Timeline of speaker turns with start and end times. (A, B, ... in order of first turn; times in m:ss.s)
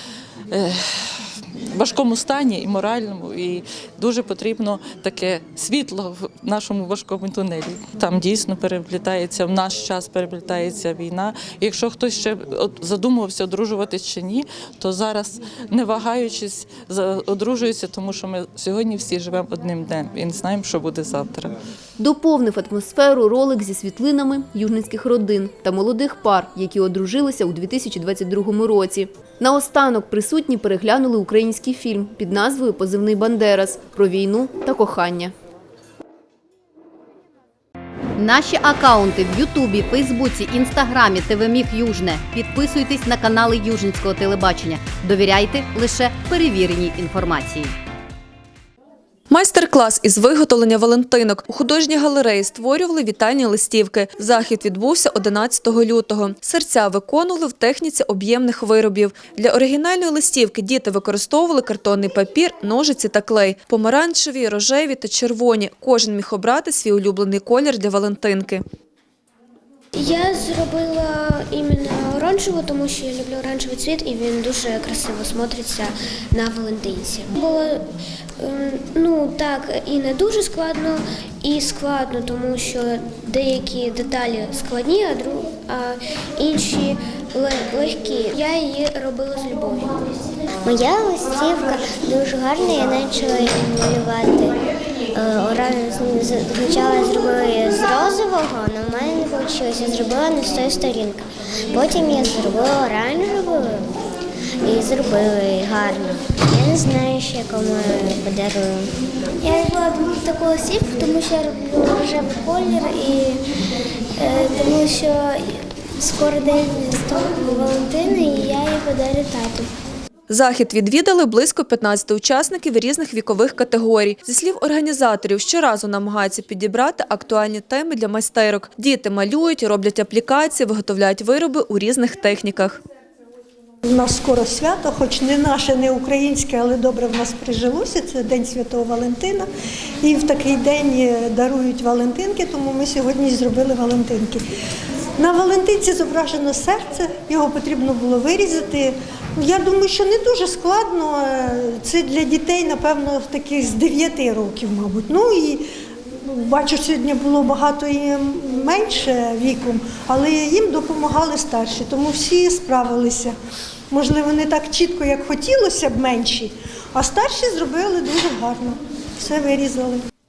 0:00.5-0:21.5 A
0:22.0-0:35.3 B
0:38.2-0:47.7 C
0:49.3-1:08.6 D
1:10.0-1:17.8 E
1:18.4-1:29.9 E
1:30.6-1:34.6 E
1:35.1-1:43.9 E
1:44.6-1:48.9 E
1:49.4-1:53.4 E
1:54.2-1:59.7 E
2:00.3-2:12.8 D
2:13.8-2:19.5 F
2:20.0-2:24.4 F
2:25.2-2:35.6 F
2:36.3-2:43.4 F
2:43.9-2:50.0 F